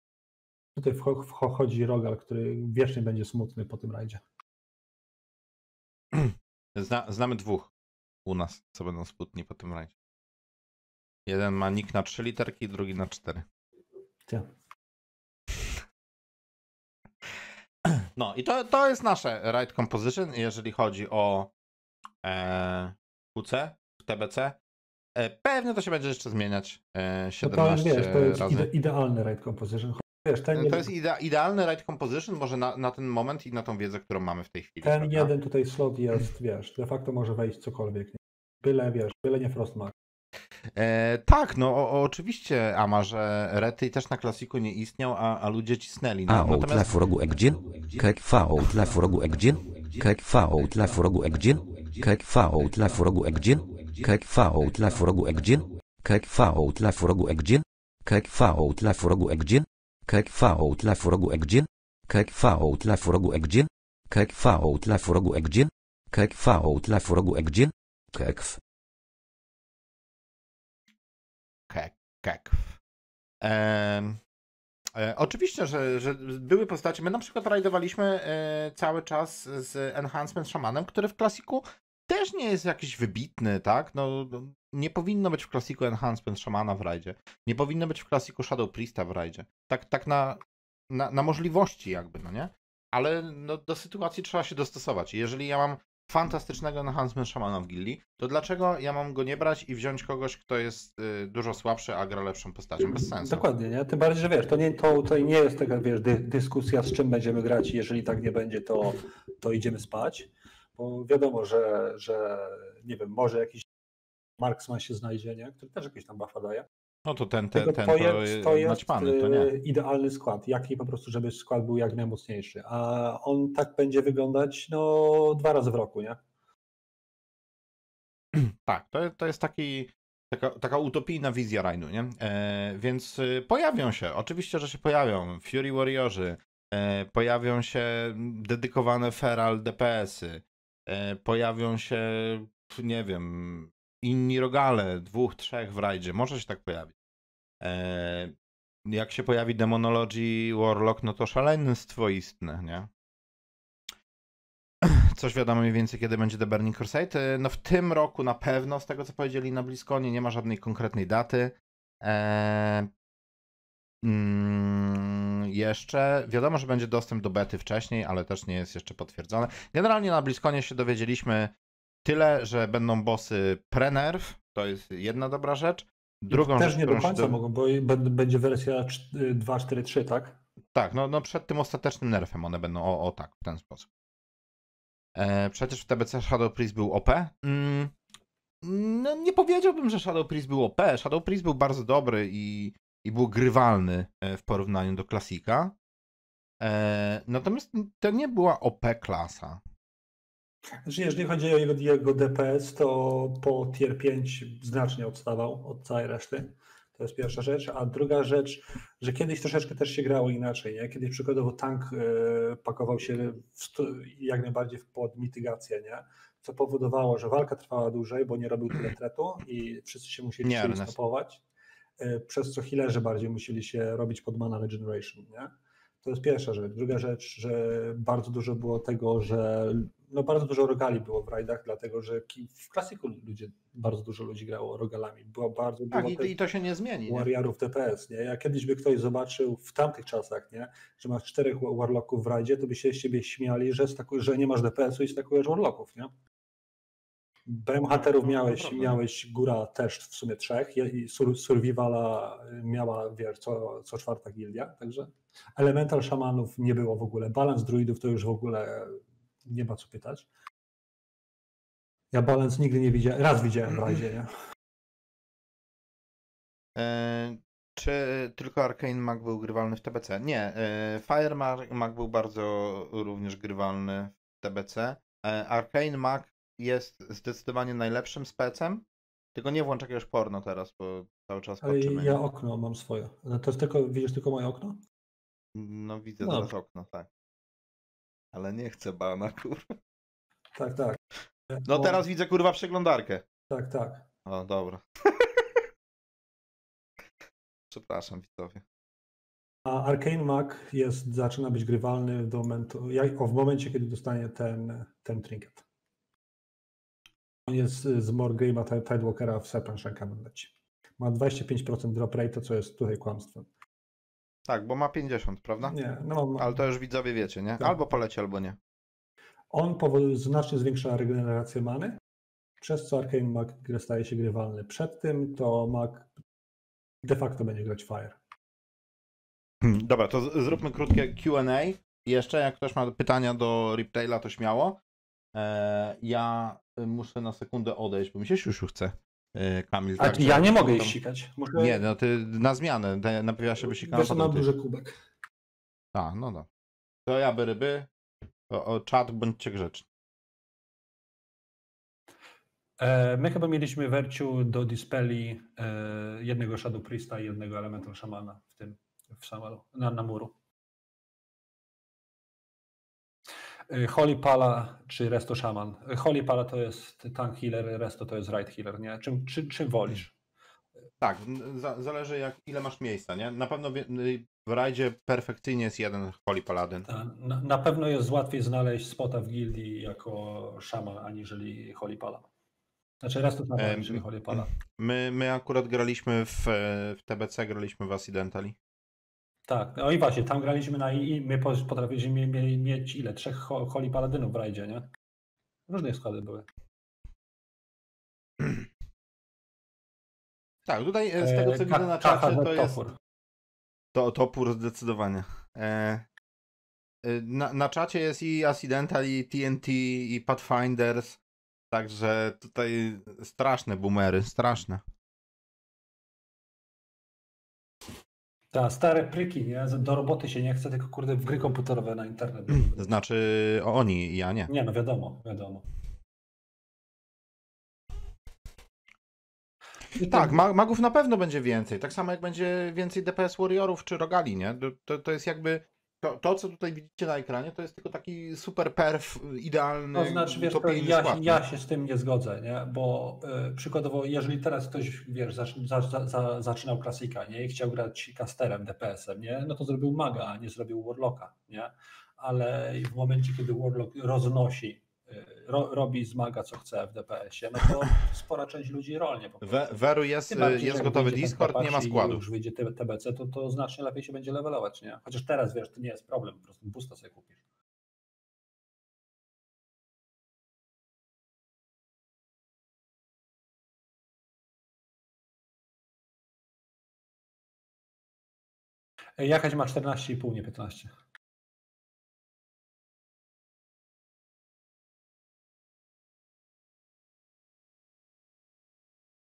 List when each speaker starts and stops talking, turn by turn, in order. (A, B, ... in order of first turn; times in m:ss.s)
0:00.8-0:04.2 A
0:06.1-0:07.7 B
0:08.2-0:09.9 B
0:11.2-0:13.5 B
0:17.8-0:21.5 B
0:22.2-0:24.6 B
0:25.2-0:28.7 B
0:27.4-0:30.9 A
0:30.5-0:35.3 B
0:34.8-0:39.9 A
0:40.7-0:47.0 B
0:46.3-1:08.6 C
1:11.7-1:12.8 B
1:13.4-1:14.2 B
1:14.9-1:43.4 B
1:42.8-1:53.7 A
1:54.4-1:56.7 A
1:57.0-1:59.5 B
1:57.5-2:06.2 A
2:08.3-2:26.9 B
2:27.6-2:28.3 B
2:28.9-2:32.9 B
2:34.8-2:42.9 B
2:44.0-2:51.5 B
2:52.0-2:57.4 B
2:56.3-3:00.4 A
3:00.8-3:03.9 B
3:05.2-3:07.9 B
3:08.6-3:15.8 B
3:16.6-3:19.6 B
3:20.8-3:41.4 A
3:40.4-3:40.9 B
3:42.0-3:56.4 A
3:55.9-3:57.3 B
3:57.1-4:06.1 A
4:07.5-4:20.3 A
4:07.9-4:09.0 B
4:22.1-4:24.3 A
4:26.8-4:38.8 B
4:39.4-4:42.2 B
4:41.6-4:44.8 A
4:45.5-4:47.1 B
4:46.2-4:46.5 A
4:48.3-4:49.7 B
4:50.5-4:51.0 A
4:51.5-4:52.0 A
4:51.6-4:53.2 B
4:53.5-4:54.0 A
4:54.2-4:55.6 B
4:57.7-4:58.6 B
4:59.6-5:05.6 A
5:07.5-5:13.5 A
5:14.5-5:15.8 B
5:15.7-5:16.5 A
5:16.4-5:18.6 B
5:19.5-5:22.0 A
5:22.6-5:26.1 A
5:27.0-5:28.2 A
5:29.6-5:34.8 B
5:35.4-5:41.0 B
5:40.0-5:41.8 A
5:41.5-5:44.5 B
5:43.8-5:44.9 A
5:45.9-5:46.5 B
5:47.0-5:47.9 B
5:48.5-5:49.9 B
5:52.8-6:00.3 A
6:03.7-6:10.1 A
6:11.0-6:16.9 B
6:16.9-6:22.3 A
6:23.0-6:24.5 A
6:23.6-6:28.6 B
6:29.5-6:34.9 A
6:35.7-6:36.5 A
6:40.6-6:42.8 B
6:41.2-6:43.0 A
6:43.9-6:46.0 B
6:47.0-6:51.2 B
6:51.7-6:54.8 B
6:58.5-7:02.9 A
7:02.7-7:04.5 B
7:04.5-7:05.6 A
7:10.0-7:10.4 A
7:10.0-7:21.4 B
7:19.9-7:39.7 A
7:39.4-7:42.2 B
7:40.3-7:47.4 A
7:59.2-8:00.9 A